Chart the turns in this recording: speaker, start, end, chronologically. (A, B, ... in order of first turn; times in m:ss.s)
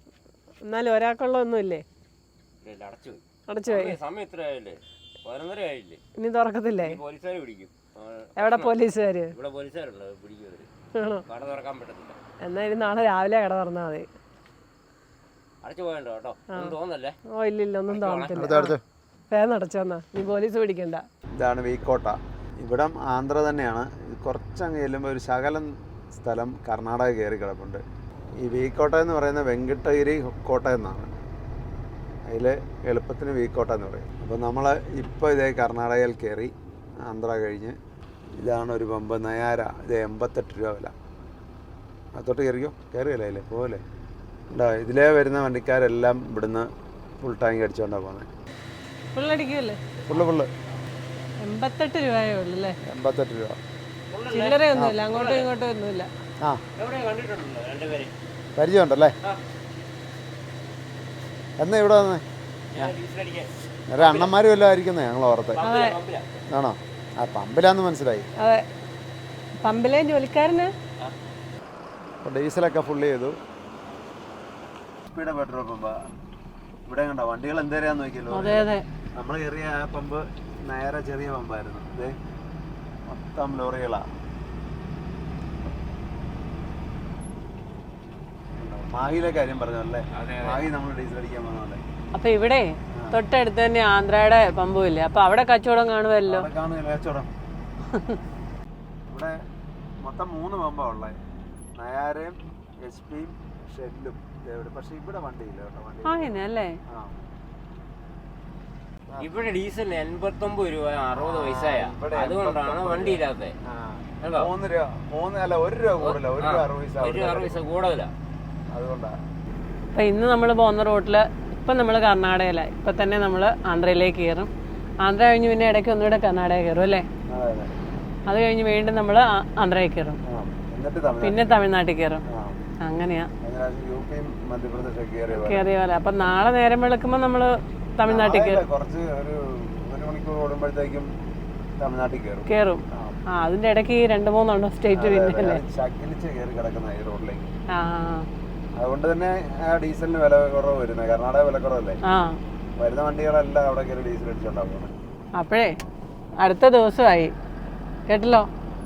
0:00.6-0:01.8 A
0:02.6-0:06.0 B
0:03.5-0:03.9 A
0:06.2-0:07.0 A
0:06.8-0:08.8 B
0:08.4-0:09.3 A
0:09.3-0:10.7 B
0:10.9-0:11.2 A
0:11.3-0:12.2 B
0:12.4-0:14.1 A
0:15.6-0:17.2 B
0:17.3-0:18.7 A
0:17.9-0:18.6 B
0:18.4-0:18.8 C
0:19.3-0:21.0 A
0:21.4-0:27.8 C
0:28.4-0:31.1 C
0:32.3-0:36.5 C
0:37.1-0:37.8 C
0:38.4-0:40.9 C
0:42.2-0:43.8 C
0:44.5-0:46.7 C
0:47.2-0:48.3 C
0:49.1-0:49.8 A
0:50.1-0:50.5 C
0:51.4-0:52.8 A
0:52.8-0:53.6 C
0:54.1-0:55.5 B
0:54.3-0:56.1 A
0:56.8-0:58.1 B
0:58.5-0:59.1 C
1:01.6-1:02.2 C
1:02.7-1:04.3 B
1:03.9-1:05.6 C
1:05.5-1:06.3 B
1:05.6-1:06.0 A
1:06.5-1:08.3 C
1:08.4-1:08.6 A
1:09.6-1:10.7 A
1:12.2-1:13.4 C
1:15.1-1:16.0 C
1:16.9-1:18.7 C
1:18.3-1:18.8 A
1:19.2-1:22.2 C
1:23.1-1:24.0 C
1:28.6-1:31.8 C
1:30.1-1:30.6 B
1:32.1-1:36.5 A
1:36.2-1:37.3 C
1:39.1-1:39.4 C
1:40.0-1:41.2 C
1:41.8-1:46.4 C
1:46.0-1:46.8 A
1:46.9-1:47.2 C
1:49.2-1:53.5 B
1:51.1-1:57.6 C
1:54.2-1:54.5 B
1:56.0-1:58.1 B
1:58.7-1:59.1 C
1:59.9-2:04.5 A
2:05.0-2:07.0 A
2:07.3-2:07.7 C
2:08.3-2:10.2 A
2:10.3-2:11.6 C
2:11.2-2:12.2 A
2:12.3-2:12.6 C
2:12.8-2:13.3 A
2:13.4-2:15.7 C
2:15.3-2:18.6 A
2:18.0-2:21.1 C
2:21.8-2:23.2 C
2:22.5-2:22.8 A
2:23.3-2:25.6 A
2:24.9-2:27.5 C
2:27.7-2:28.3 A
2:28.8-2:32.0 C
2:32.0-2:32.4 A
2:32.8-2:34.9 C
2:35.4-2:35.7 A
2:36.4-2:37.3 A
2:38.1-2:38.5 A